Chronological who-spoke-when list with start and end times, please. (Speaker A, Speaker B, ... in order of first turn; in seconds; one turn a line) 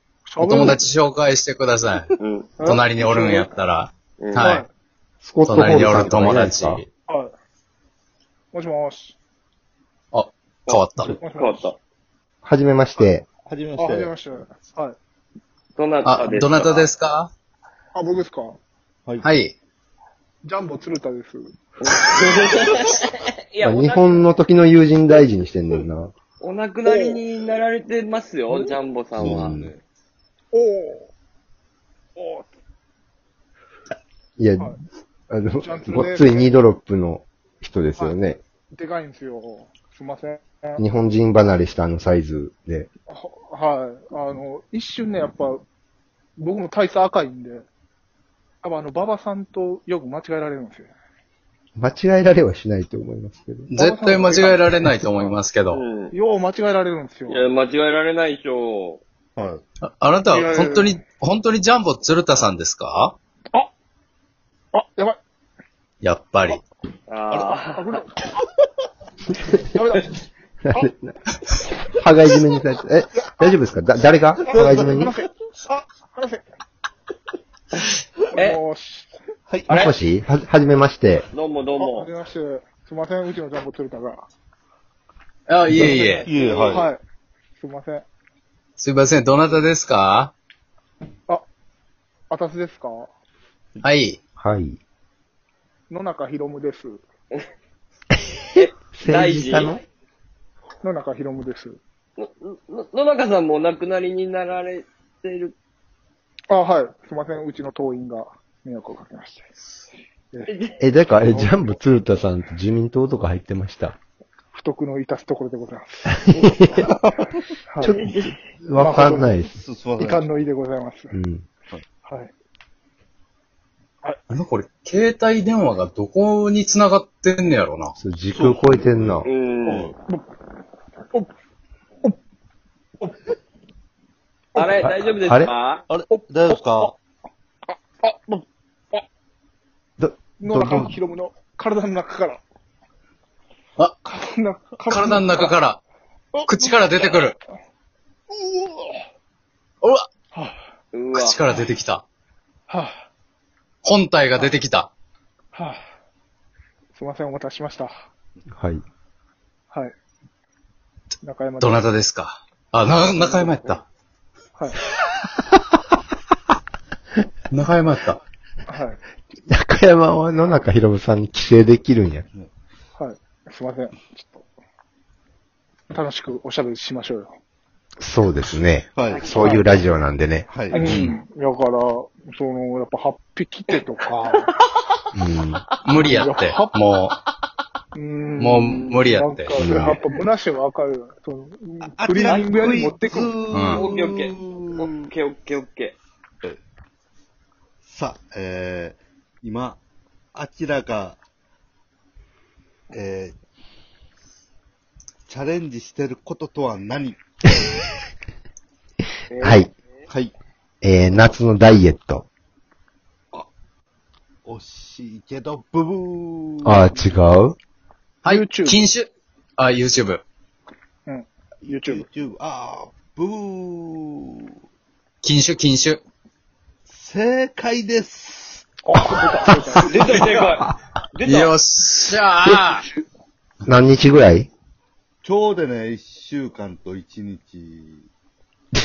Speaker A: 0.3-0.8
Speaker B: 0.4-2.1
Speaker C: 2.2-2.6
Speaker A: 2.6-3.5
Speaker B: 2.6-4.7
Speaker C: 4.2-4.5
Speaker A: 4.4-4.7
Speaker D: 5.2-6.8
Speaker B: 5.5-6.9
Speaker A: 7.1-7.3
Speaker A: 8.5-9.2
Speaker B: 10.1-11.1
Speaker C: 10.7-11.8
Speaker A: 11.2-11.7
Speaker D: 12.4-13.3
Speaker E: 13.4-14.1
Speaker A: 13.8-15.0
Speaker C: 15.8-16.9
Speaker B: 16.1-17.3
Speaker A: 17.9-18.6
Speaker B: 19.2-19.5
Speaker A: 20.4-21.5
Speaker C: 21.8-24.2
Speaker D: 23.6-26.1
Speaker C: 26.4-29.5
Speaker D: 29.2-29.7
Speaker E: 29.2-29.8
Speaker A: 30.5-31.1
Speaker A: 32.2-32.5
Speaker D: 34.4-34.7
Speaker D: 35.3-38.4
Speaker A: 35.6-36.5
Speaker A: 38.7-40.8
Speaker D: 40.8-42.9
Speaker A: 43.1-45.6
Speaker A: 46.4-47.7
Speaker A: 48.6-50.9
Speaker D: 51.8-53.7
Speaker B: 53.7-55.8
Speaker A: 53.8-55.4
Speaker C: 55.7-56.1
Speaker A: 56.1-57.5
Speaker C: 57.3-59.0
Speaker E: 59.4-59.6
Speaker B: 59.8-63.2
Speaker A: 60.3-61.0
Speaker A: 64.7-65.2
Speaker B: 66.0-66.6
Speaker C: 67.1-67.9
Speaker A: 67.7-68.1
Speaker A: 69.7-70.1
Speaker D: 70.7-71.1
Speaker D: 71.9-75.2
Speaker E: 74.5-75.0
Speaker A: 74.5-76.4
Speaker A: 78.3-79.1
Speaker E: 79.5-79.8
Speaker C: 79.7-79.9
Speaker D: 79.7-81.3
Speaker C: 81.3-82.1
Speaker A: 81.8-84.3
Speaker B: 85.5-86.3
Speaker E: 85.7-86.9
Speaker C: 86.1-86.8
Speaker A: 86.7-87.0
Speaker A: 87.6-88.1
Speaker B: 88.8-90.3
Speaker A: 92.3-93.1
Speaker B: 93.8-94.2
Speaker D: 94.4-94.8
Speaker A: 95.9-97.0
Speaker C: 98.5-99.8
Speaker D: 98.6-99.8
Speaker A: 100.8-101.8
Speaker C: 102.2-105.5
Speaker A: 106.5-109.5
Speaker C: 110.5-110.8
Speaker D: 110.8-114.0
Speaker A: 111.3-111.7
Speaker A: 114.5-116.2
Speaker D: 116.3-116.5
Speaker C: 116.3-116.7
Speaker E: 116.8-117.3
Speaker A: 117.7-118.0
Speaker C: 117.8-118.4
Speaker D: 117.8-119.5
Speaker A: 118.8-119.3
Speaker E: 119.3-120.3
Speaker A: 120.0-121.1
Speaker D: 121.1-121.5
Speaker A: 122.0-122.3
Speaker B: 124.3-128.0
Speaker D: 128.0-129.3
Speaker E: 128.3-129.1
Speaker C: 129.2-129.9
Speaker E: 129.7-130.0
Speaker A: 134.5-134.8
Speaker C: 134.6-135.8
Speaker D: 134.8-135.5
Speaker E: 135.9-136.9
Speaker A: 136.1-136.9
Speaker A: 137.7-139.1
Speaker D: 140.0-140.9
Speaker A: 140.4-142.4
Speaker A: 144.1-145.5
Speaker B: 144.9-145.8
Speaker A: 146.3-147.0
Speaker B: 146.4-147.4
Speaker A: 148.4-148.8
Speaker A: 150.3-150.6
Speaker C: 150.9-151.4
Speaker B: 151.1-152.0
Speaker A: 152.7-153.0
Speaker B: 153.8-154.9
Speaker A: 155.5-155.8
Speaker A: 157.0-158.0
Speaker D: 158.5-158.8
Speaker A: 161.2-161.9
Speaker B: 161.6-163.8
Speaker C: 163.1-163.8
Speaker B: 167.5-168.2
Speaker A: 168.7-169.0
Speaker D: 169.5-172.3
Speaker A: 173.0-174.4
Speaker A: 175.9-177.3
Speaker D: 178.0-181.1
Speaker E: 178.9-179.6
Speaker C: 179.1-179.7
Speaker A: 179.3-179.6
Speaker E: 180.5-181.1
Speaker A: 180.7-184.5
Speaker D: 185.2-185.7
Speaker B: 185.8-187.2
Speaker A: 186.1-186.8
Speaker A: 187.9-193.3
Speaker B: 188.4-189.7
Speaker D: 189.6-190.0
Speaker E: 191.9-195.1
Speaker C: 192.2-192.5
Speaker B: 193.5-193.9
Speaker C: 193.7-196.0
Speaker E: 197.8-199.8
Speaker E: 200.3-201.2
Speaker E: 202.9-203.4
Speaker E: 205.3-207.2
Speaker C: 209.3-209.7
Speaker D: 209.4-209.7
Speaker E: 210.1-210.3
Speaker D: 210.8-212.3
Speaker E: 214.4-217.0
Speaker D: 216.6-217.6
Speaker B: 218.2-220.2
Speaker A: 218.2-218.9
Speaker A: 221.1-222.1
Speaker E: 221.6-224.6
Speaker B: 225.2-226.0
Speaker E: 226.9-228.7
Speaker A: 228.8-230.0
Speaker C: 229.8-231.5
Speaker B: 231.3-232.9
Speaker D: 233.7-234.5
Speaker E: 235.2-238.1